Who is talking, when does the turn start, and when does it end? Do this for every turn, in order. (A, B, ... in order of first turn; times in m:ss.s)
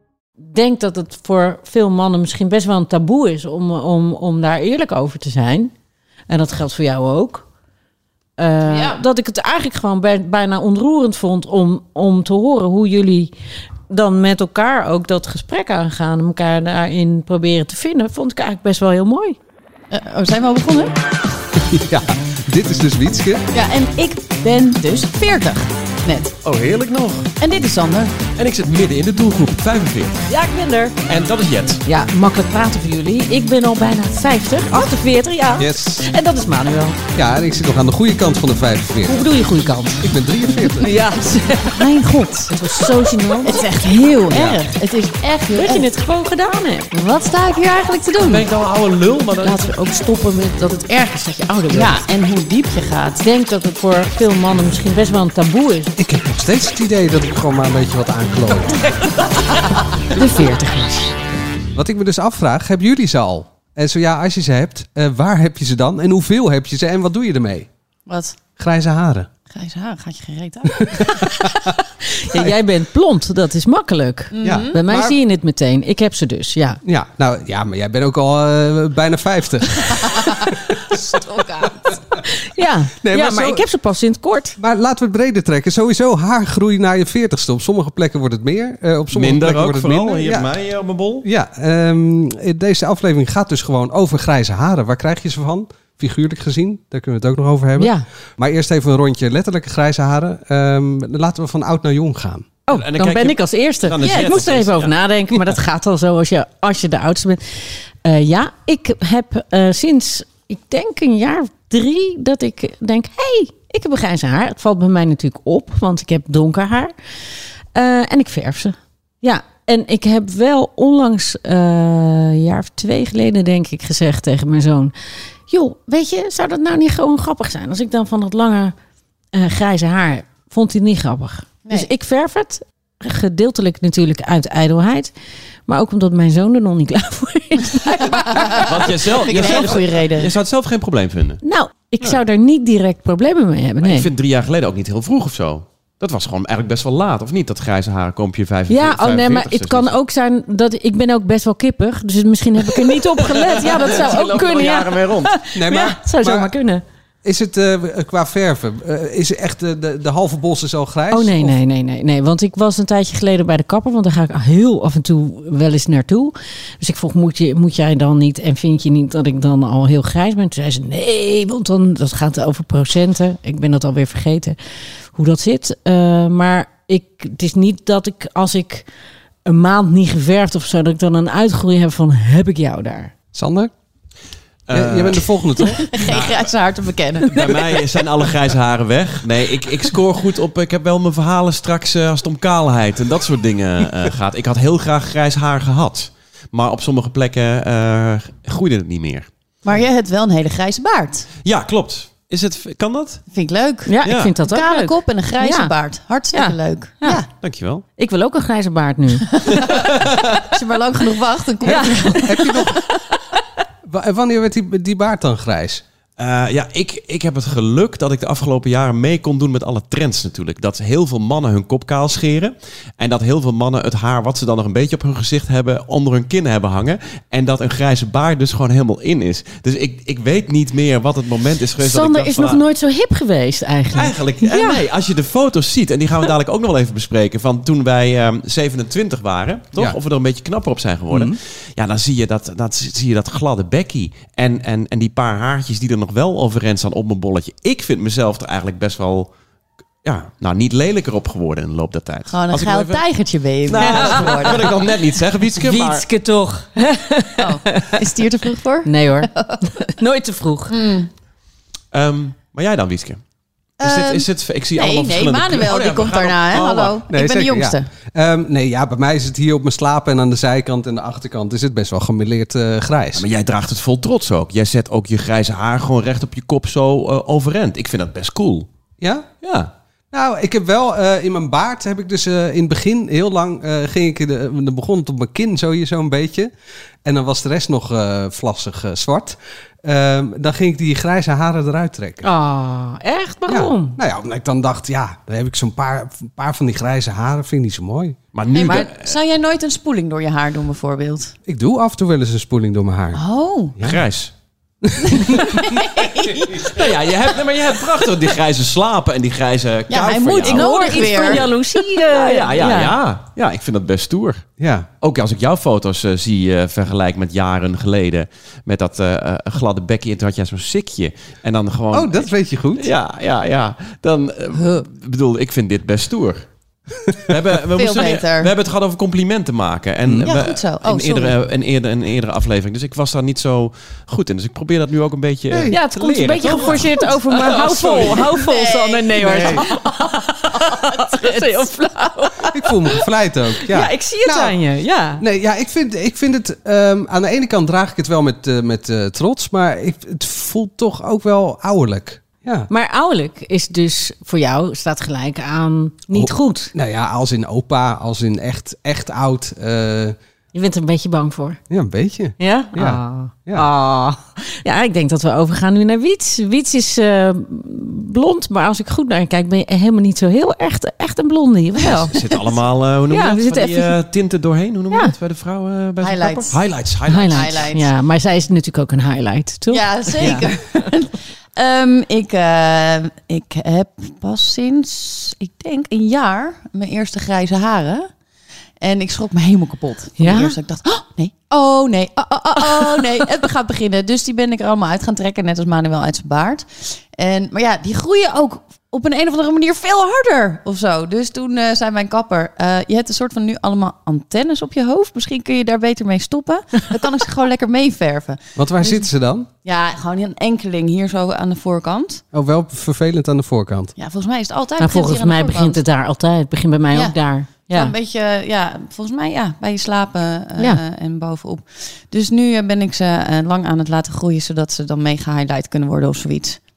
0:00.4-0:05.7 A
0:06.3-0:07.4 A
0:08.4-0:13.3 A
0:08.7-0:09.0 B
0:13.9-0:19.4 A
0:19.9-0:21.0 B
0:21.6-0:23.5 C
0:23.5-0:26.4 B
0:26.4-0:27.3 D
0:27.4-0:28.2 B
0:28.4-0:30.2 D
0:30.3-0:31.0 A
0:31.1-0:31.8 D
0:31.9-0:37.0 A
0:35.6-0:36.1 C
0:37.2-0:39.2 C
0:39.1-0:41.8 A
0:40.0-0:41.0 C
0:41.6-0:42.6 B
0:42.5-0:43.6 A
0:43.4-0:45.9 B
0:44.3-0:44.6 D
0:45.5-0:46.9 A
0:46.9-0:48.5 B
0:48.2-0:49.7 D
0:49.4-0:53.2 B
0:51.5-0:52.0 A
0:53.2-0:55.9 A
0:56.0-0:58.9 C
1:00.1-1:01.1 A
1:00.2-1:00.5 B
1:01.7-1:07.7 C
1:08.1-1:08.4 B
1:08.6-1:09.3 C
1:09.5-1:11.4 B
1:10.8-1:11.5 C
1:12.1-1:16.8 A
1:14.3-1:14.8 B
1:14.4-1:15.2 C
1:16.8-1:20.6 C
1:20.1-1:22.0 B
1:22.2-1:24.6 A
1:23.0-1:23.6 C
1:24.6-1:30.5 C
1:29.1-1:31.3 D
1:31.2-1:42.5 C
1:37.8-1:38.0 A
1:42.7-1:56.9 A
1:42.7-1:44.9 D
1:44.0-1:44.3 B
1:57.7-2:04.9 A
2:05.5-2:08.8 A
2:09.3-2:15.1 A
2:15.7-2:18.7 A
2:18.0-2:20.3 B
2:18.5-2:21.4 D
2:21.4-2:24.1 A
2:23.8-2:29.9 D
2:28.7-2:36.8 A
2:32.7-2:35.3 D
2:35.5-2:36.5 C
2:37.2-2:41.6 C
2:41.1-2:54.6 A
2:55.1-2:58.9 A
2:59.5-3:03.1 A
3:03.3-3:03.7 C
3:04.7-3:05.3 D
3:04.7-3:05.9 C
3:05.8-3:07.9 B
3:06.0-3:06.5 D
3:07.2-3:19.3 D
3:19.6-3:21.3 B
3:21.4-3:23.2 D
3:23.3-3:27.3 B
3:23.9-3:25.7 A
3:24.0-3:24.3 D
3:26.3-3:27.2 A
3:27.4-3:27.8 D
3:28.0-3:29.3 A
3:29.3-3:32.5 B
3:29.6-3:30.4 D
3:31.6-3:33.2 A
3:32.2-3:32.8 C
3:33.8-3:35.8 C
3:36.2-3:52.6 D
3:51.8-3:54.8 A
3:54.0-4:09.3 D
4:01.1-4:01.4 C
4:10.0-4:13.0 D
4:12.3-4:14.9 B
4:13.6-4:16.0 D
4:13.8-4:14.2 A
4:15.6-4:18.0 A
4:17.4-4:19.8 B
4:18.8-4:20.8 A
4:20.7-4:21.1 B
4:21.9-4:23.2 D
4:23.8-4:27.9 B
4:23.8-4:27.0 D
4:27.1-4:33.3 C
4:33.2-4:38.7 D
4:39.0-4:39.3 C
4:39.4-4:39.7 D
4:40.1-4:46.5 C
4:47.0-4:52.3 C
4:52.2-4:54.0 A
4:53.5-4:58.7 C
4:58.3-4:59.2 D
4:58.6-5:01.4 B
5:01.5-5:03.2 C
5:03.1-5:03.8 B
5:03.8-5:04.3 D
5:04.8-5:05.8 C
5:05.1-5:06.8 B
5:06.6-5:11.5 D
5:09.9-5:12.0 B
5:10.5-5:13.0 A
5:12.1-5:14.5 D
5:14.6-5:14.9 C
5:15.0-5:26.4 D
5:21.9-5:22.9 C
5:27.1-5:27.4 C
5:27.3-5:38.1 D
5:27.8-5:28.5 B
5:30.2-5:31.4 B
5:35.5-5:35.8 C
5:35.7-5:43.0 A
5:38.0-5:41.6 B
5:39.3-5:39.6 C
5:42.4-5:44.6 C
5:43.7-5:45.2 A
5:45.2-5:52.7 C
5:52.7-5:56.7 A
5:56.1-6:00.2 C
6:00.5-6:01.6 A
6:01.7-6:03.7 C
6:02.4-6:12.1 A
6:12.0-6:17.7 D
6:13.1-6:13.9 A
6:16.0-6:16.6 B
6:17.1-6:20.5 A
6:17.3-6:17.9 B
6:19.7-6:28.1 B
6:28.8-6:49.1 B
6:30.2-6:30.6 A
6:48.6-6:49.5 C
6:49.6-6:52.2 B
6:52.3-6:53.9 C
6:54.0-6:55.8 B
6:54.8-6:57.9 A
6:56.9-7:06.6 B